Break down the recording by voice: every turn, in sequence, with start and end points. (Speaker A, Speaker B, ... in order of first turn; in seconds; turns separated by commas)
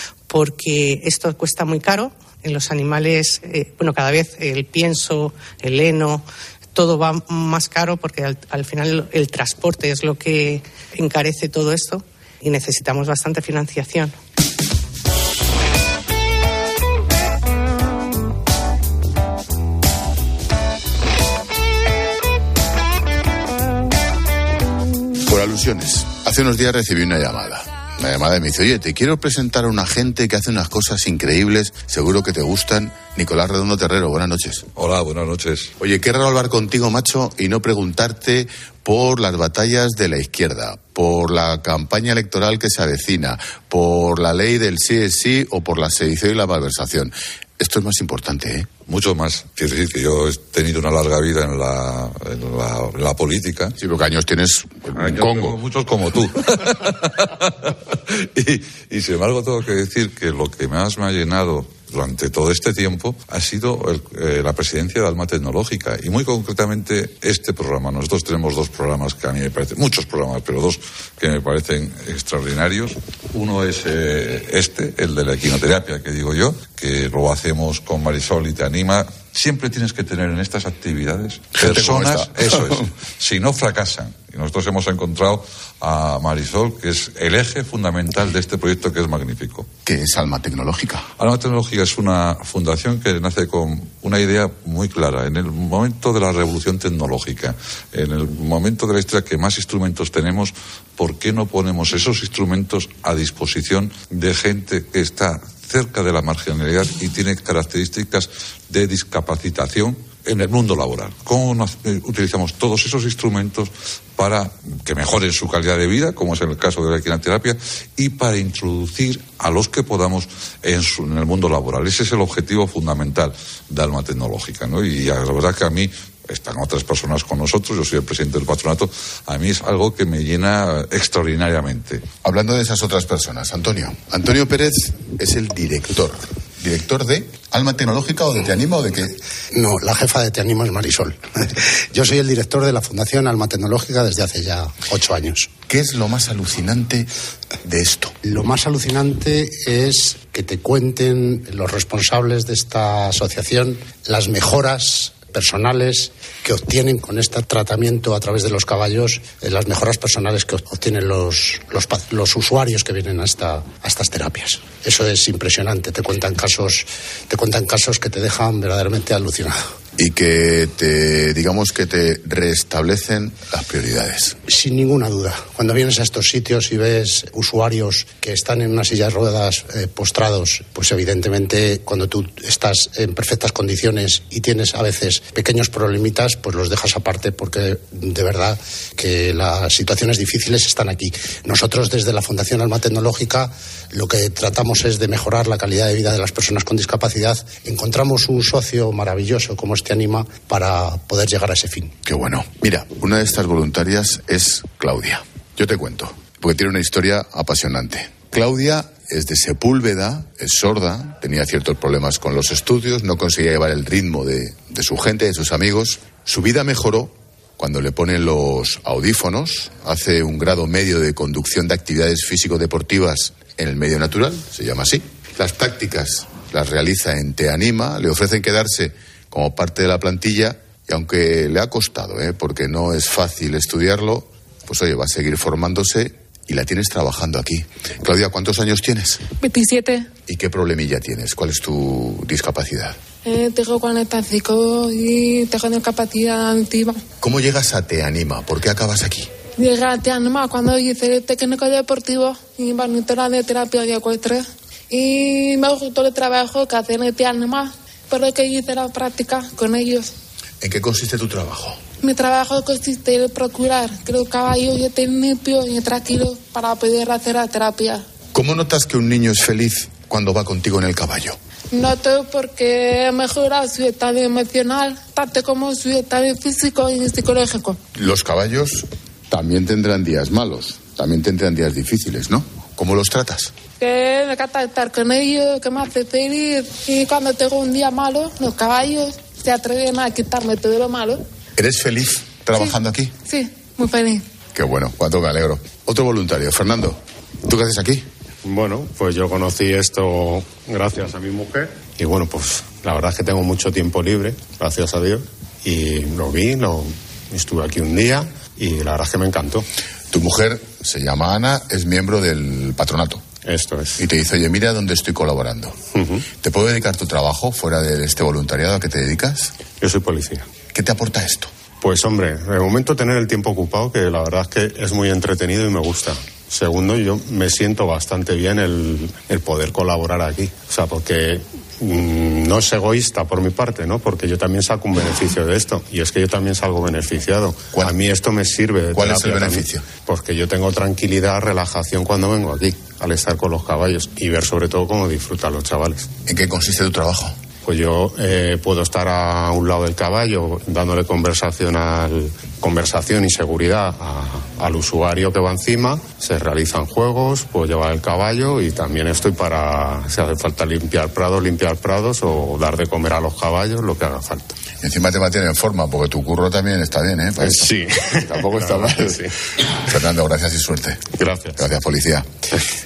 Speaker A: 0.3-14.1, Speaker B: 25.2-34.6, Speaker C: 34.8-35.7, Speaker B: 35.8-48.7, Speaker C: 48.9-53.7, Speaker B: 53.8-55.6, Speaker C: 55.0-89.7, Speaker B: 81.6-82.8, Speaker B: 89.8-91.1, Speaker C: 91.2-132.1, Speaker B: 132.2-139.2, Speaker D: 139.5-145.5, Speaker B: 145.7-147.1, Speaker B: 147.6-148.2, Speaker D: 148.2-169.6, Speaker B: 170.0-174.4, Speaker D: 174.5-201.9, Speaker B: 202.0-239.2, Speaker E: 239.4-240.1, Speaker B: 240.2-243.0, Speaker E: 243.2-247.0, Speaker B: 247.2-249.3, Speaker E: 249.6-260.1, Speaker B: 260.6-261.8, Speaker E: 262.0-268.0, Speaker B: 268.3-271.4, Speaker E: 271.7-277.8, Speaker B: 277.9-283.5, Speaker E: 283.8-291.2, Speaker B: 291.6-293.1, Speaker E: 292.5-294.2, Speaker B: 294.5-298.1, Speaker F: 298.4-309.6, Speaker B: 310.1-313.2, Speaker F: 313.4-314.0, Speaker B: 314.0-315.8, Speaker F: 315.9-316.2, Speaker B: 316.3-319.5, Speaker F: 319.8-320.5, Speaker B: 320.7-321.5, Speaker F: 321.8-346.1, Speaker B: 338.9-339.9, Speaker B: 346.2-347.4, Speaker F: 347.6-364.6, Speaker B: 364.8-369.3, Speaker F: 367.4-369.3, Speaker B: 369.8-372.3, Speaker F: 371.1-371.6